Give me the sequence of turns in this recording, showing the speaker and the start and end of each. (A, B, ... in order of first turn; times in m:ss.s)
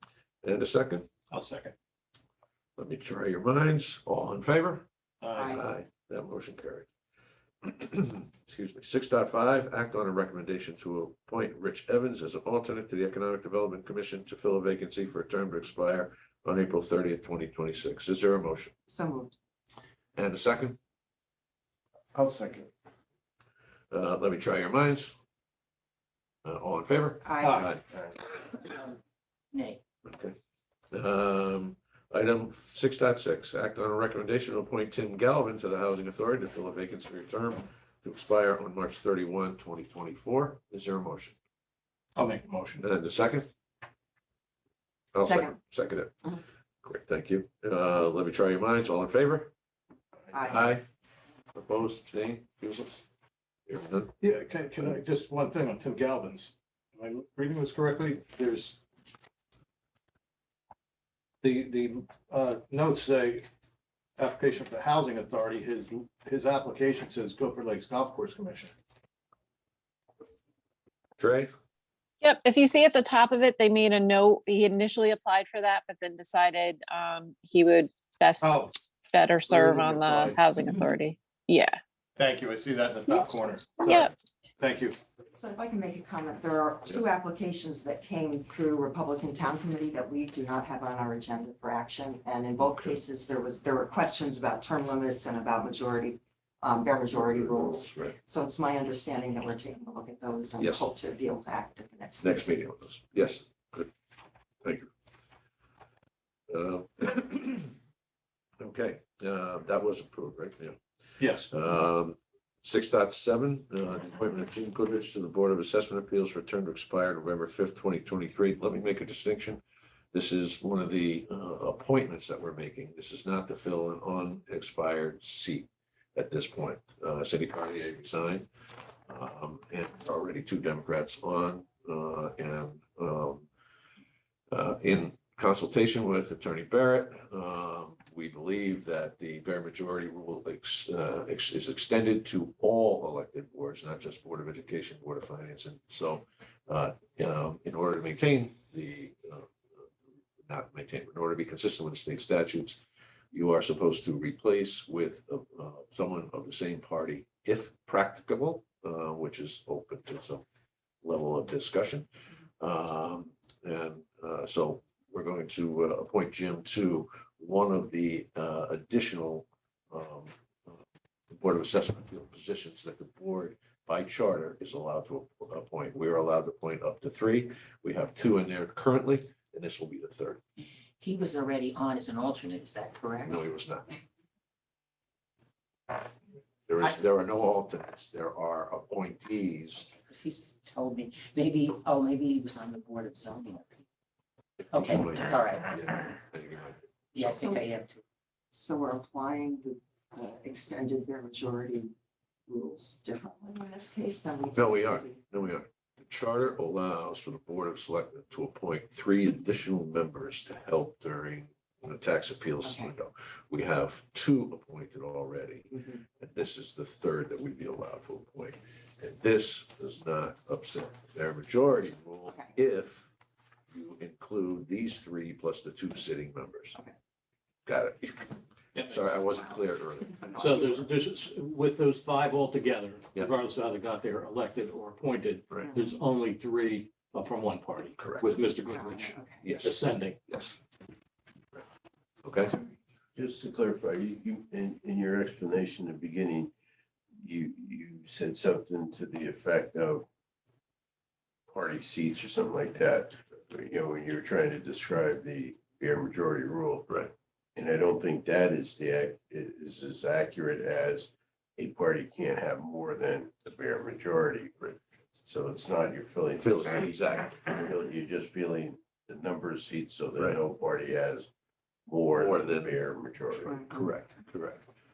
0:00.4-0:01.1 A
0:01.3-0:01.8 B
0:02.8-0:04.8 A
0:05.2-0:05.6 B
0:05.3-0:05.7 C
0:05.5-0:06.9 A
0:07.6-0:18.7 A
0:18.9-0:19.4 C
0:20.2-0:20.8 A
0:22.1-0:22.7 D
0:23.9-0:25.2 A
0:26.4-0:27.8 A
0:27.2-0:27.7 C
0:27.9-0:28.2 D
0:29.5-0:29.8 E
0:30.1-0:30.4 A
0:30.9-0:41.4 A
0:42.2-0:42.8 B
0:42.8-0:43.5 A
0:45.1-0:46.2 A
0:45.2-0:45.6 C
0:46.8-0:49.5 A
0:50.3-0:50.7 C
0:50.5-0:50.8 A
0:51.6-0:53.0 A
0:53.7-0:54.2 A
0:54.2-0:58.8 B
1:01.4-1:03.5 B
1:04.2-1:08.7 B
1:11.2-1:11.5 A
1:12.2-1:21.8 F
1:18.4-1:18.7 B
1:19.5-1:20.4 B
1:22.2-1:25.0 B
1:23.8-1:24.1 F
1:25.4-1:42.5 C
1:32.6-1:33.0 A
1:37.1-1:38.2 A
1:40.6-1:40.9 A
1:42.2-1:43.9 A
1:44.6-1:44.9 A
1:46.5-1:47.7 A
1:48.6-1:50.8 A
1:51.2-1:51.5 B
1:51.5-1:59.6 A
2:00.1-2:08.5 A
2:09.1-2:13.5 A
2:14.5-2:29.5 A
2:30.4-2:32.8 A
2:33.3-2:40.4 A
2:41.0-2:42.1 A
2:42.6-2:50.8 A
2:51.3-3:00.4 A
3:01.0-3:03.4 E
3:03.3-3:03.9 A
3:06.7-3:09.9 A
3:10.0-3:13.8 E
3:14.6-3:16.8 A
3:14.7-3:15.9 E
3:17.1-3:18.0 E
3:17.2-3:17.6 C
3:18.5-3:21.9 C
3:22.5-3:25.2 C
3:24.5-3:43.1 A
3:32.6-3:32.9 C
3:43.7-3:46.8 A
3:47.7-3:50.8 A
3:50.4-4:00.3 B
3:55.6-3:55.9 C
3:58.0-3:58.3 A
3:58.7-3:59.4 C
3:59.4-3:59.7 A
4:00.3-4:00.5 A
4:02.2-4:02.6 A
4:03.2-4:06.5 D
4:07.2-4:10.0 D
4:11.5-4:16.9 D
4:17.6-4:26.8 D
4:26.4-4:27.4 A
4:27.4-4:31.3 D
4:31.9-4:33.6 D
4:32.2-4:32.8 A
4:33.3-4:34.6 A